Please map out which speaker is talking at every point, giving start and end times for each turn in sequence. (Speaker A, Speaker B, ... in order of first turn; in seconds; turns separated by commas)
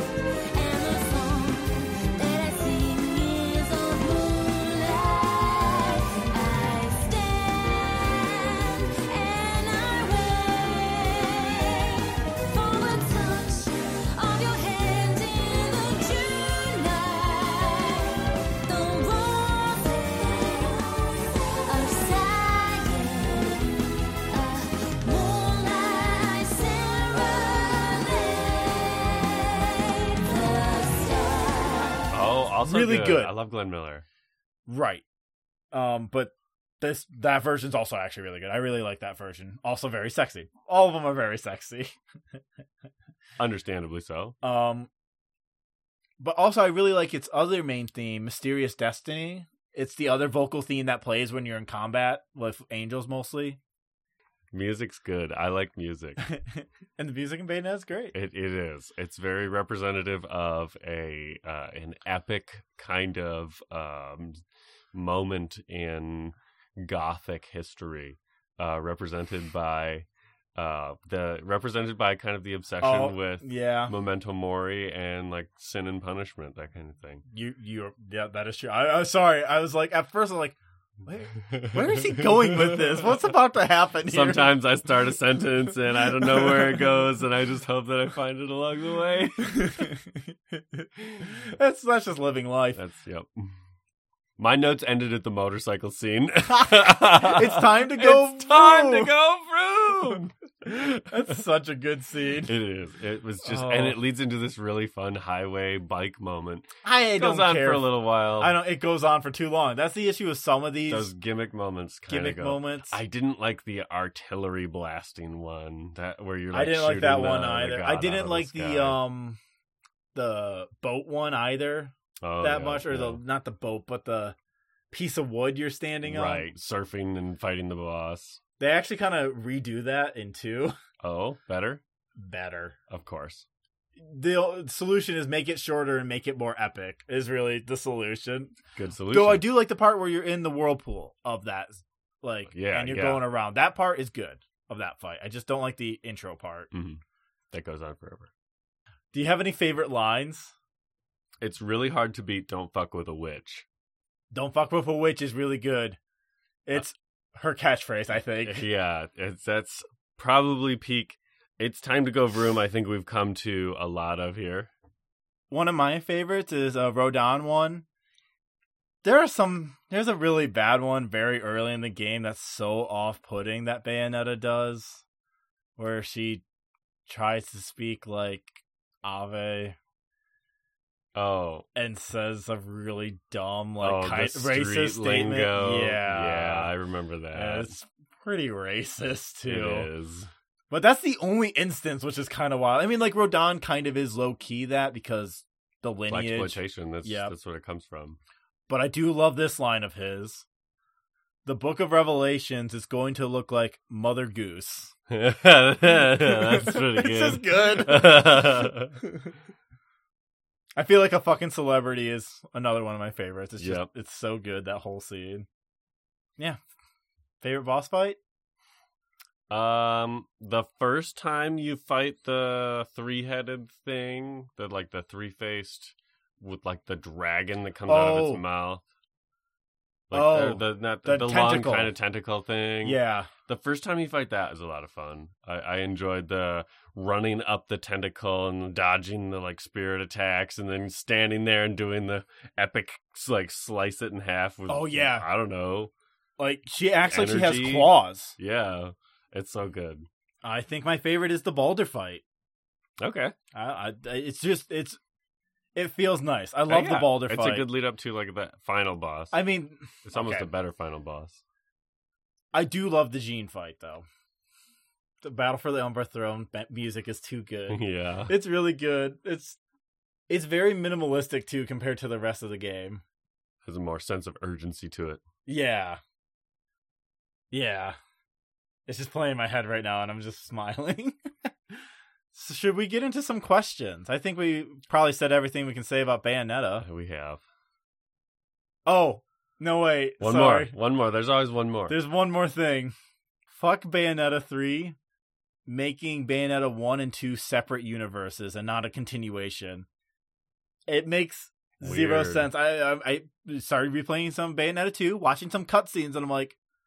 Speaker A: 0.5-32.1, Speaker B: 32.1-34.0, Speaker C: 32.6-33.3, Speaker C: 34.7-35.0, Speaker C: 35.7-42.0, Speaker B: 43.4-44.4, Speaker C: 44.4-44.9, Speaker C: 46.2-53.6, Speaker B: 54.5-56.2, Speaker C: 56.2-58.1, Speaker B: 58.1-77.2, Speaker C: 72.8-73.9, Speaker C: 77.3-84.5, Speaker B: 81.5-83.2, Speaker B: 84.1-89.8, Speaker C: 86.2-86.6, Speaker C: 89.4-92.8, Speaker B: 92.7-93.5, Speaker B: 94.4-101.4, Speaker C: 96.5-99.1, Speaker C: 101.0-102.5, Speaker B: 102.5-108.5, Speaker C: 103.4-104.0, Speaker C: 106.8-107.9, Speaker C: 108.4-111.1, Speaker B: 110.9-119.0, Speaker C: 112.1-113.0, Speaker C: 116.5-119.4, Speaker C: 120.1-124.3, Speaker B: 122.2-123.2, Speaker C: 124.9-126.5, Speaker B: 126.0-128.4, Speaker C: 128.6-130.7, Speaker B: 131.0-131.8, Speaker C: 132.2-132.8, Speaker B: 132.9-133.4, Speaker C: 134.0-138.6, Speaker B: 138.7-139.4, Speaker C: 139.1-146.7, Speaker B: 142.5-143.2, Speaker B: 146.7-147.0, Speaker B: 147.5-148.3, Speaker C: 149.1-150.5, Speaker B: 151.4-153.7, Speaker C: 154.3-156.0, Speaker C: 156.7-158.7, Speaker B: 158.4-164.7, Speaker C: 165.5-167.8, Speaker C: 169.0-175.0, Speaker C: 175.8-176.4, Speaker C: 177.1-179.8, Speaker B: 181.1-181.7, Speaker C: 181.7-186.7, Speaker B: 183.8-187.7, Speaker C: 187.3-189.9, Speaker B: 189.4-190.3, Speaker C: 190.7-197.3, Speaker B: 196.1-198.2, Speaker C: 198.7-200.4, Speaker C: 201.4-204.9, Speaker B: 205.1-209.0, Speaker C: 205.9-209.3, Speaker C: 210.8-215.4, Speaker B: 213.6-213.9, Speaker C: 217.4-218.2, Speaker B: 219.5-228.8, Speaker C: 227.9-228.4, Speaker B: 230.1-245.9, Speaker C: 230.1-231.9, Speaker C: 232.8-233.3, Speaker C: 244.7-245.3, Speaker C: 246.4-248.3, Speaker B: 247.1-250.1, Speaker C: 250.4-252.2, Speaker B: 253.0-253.3, Speaker C: 253.5-255.0, Speaker C: 255.7-257.7, Speaker B: 256.7-259.4, Speaker C: 259.3-260.5, Speaker B: 260.0-261.4, Speaker C: 262.5-264.0, Speaker C: 265.2-269.6, Speaker B: 267.7-268.3, Speaker C: 270.3-273.0, Speaker B: 273.6-275.2, Speaker C: 275.5-276.0, Speaker C: 277.5-278.0, Speaker C: 278.9-281.5, Speaker C: 282.3-286.9, Speaker B: 286.8-287.4, Speaker C: 288.9-290.7, Speaker B: 290.2-292.0, Speaker C: 291.9-292.9, Speaker C: 293.5-294.9, Speaker C: 295.7-299.9, Speaker C: 300.9-306.6, Speaker B: 301.8-302.5